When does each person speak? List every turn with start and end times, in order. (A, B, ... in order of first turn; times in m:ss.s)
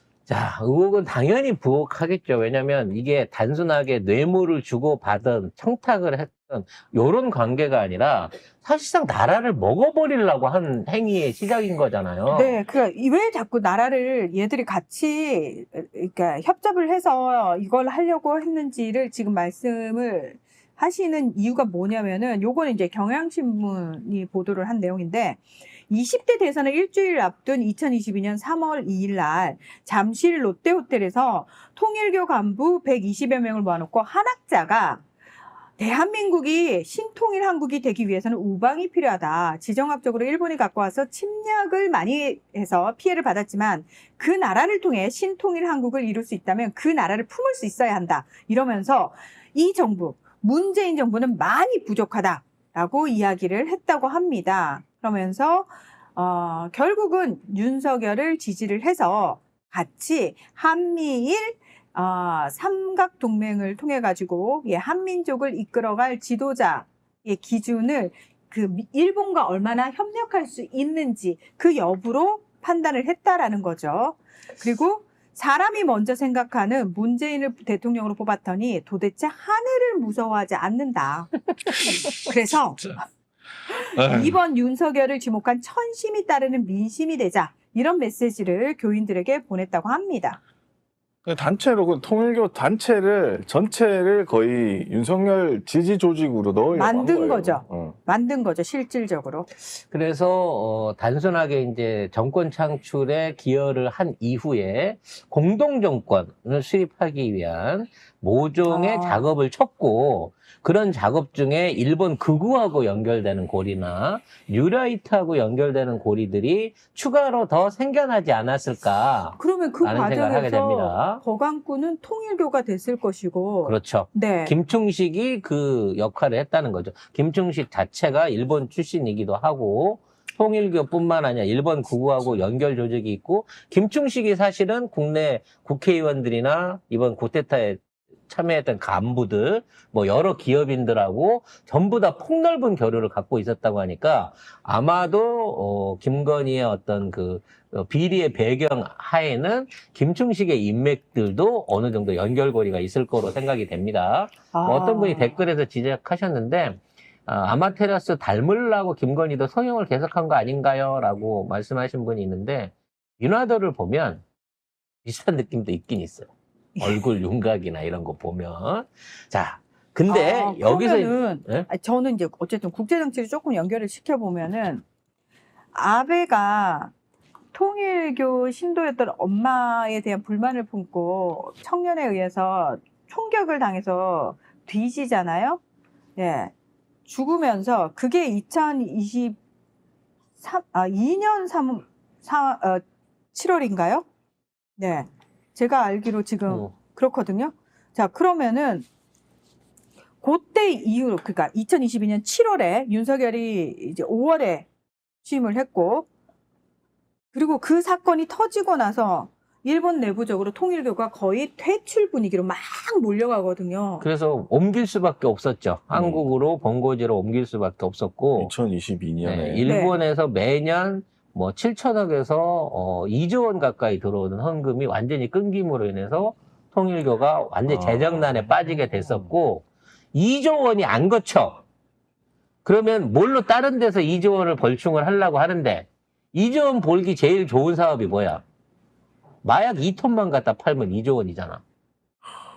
0:00.3-0:12.6 A
0:12.3-0:35.0 B
0:35.8-1:21.5 B
1:22.0-1:23.0 B
1:23.7-1:30.4 B
1:23.9-1:24.4 C
1:31.2-1:38.0 C
1:36.7-1:39.5 B
1:39.6-2:01.2 A
1:48.7-1:49.3 B
1:59.4-2:04.5 B
2:03.6-2:44.2 A
2:34.5-2:35.4 B
2:45.0-2:51.7 A
2:50.1-2:54.8 B
2:55.7-2:56.9 B
2:57.5-3:05.6 B
3:06.2-3:06.5 B
3:07.1-3:09.4 B
3:10.4-3:12.8 B
3:13.3-3:14.0 B
3:14.8-3:18.8 B
3:16.5-3:16.7 A
3:20.2-3:24.7 B
3:25.2-3:26.1 B
3:27.3-3:34.0 B
3:34.0-3:38.5 A
3:35.9-3:36.2 C
3:38.4-3:39.7 C
3:39.2-3:51.6 A
3:39.6-3:40.0 B
3:47.7-3:48.5 C
3:52.6-3:58.4 A
3:59.4-4:01.6 A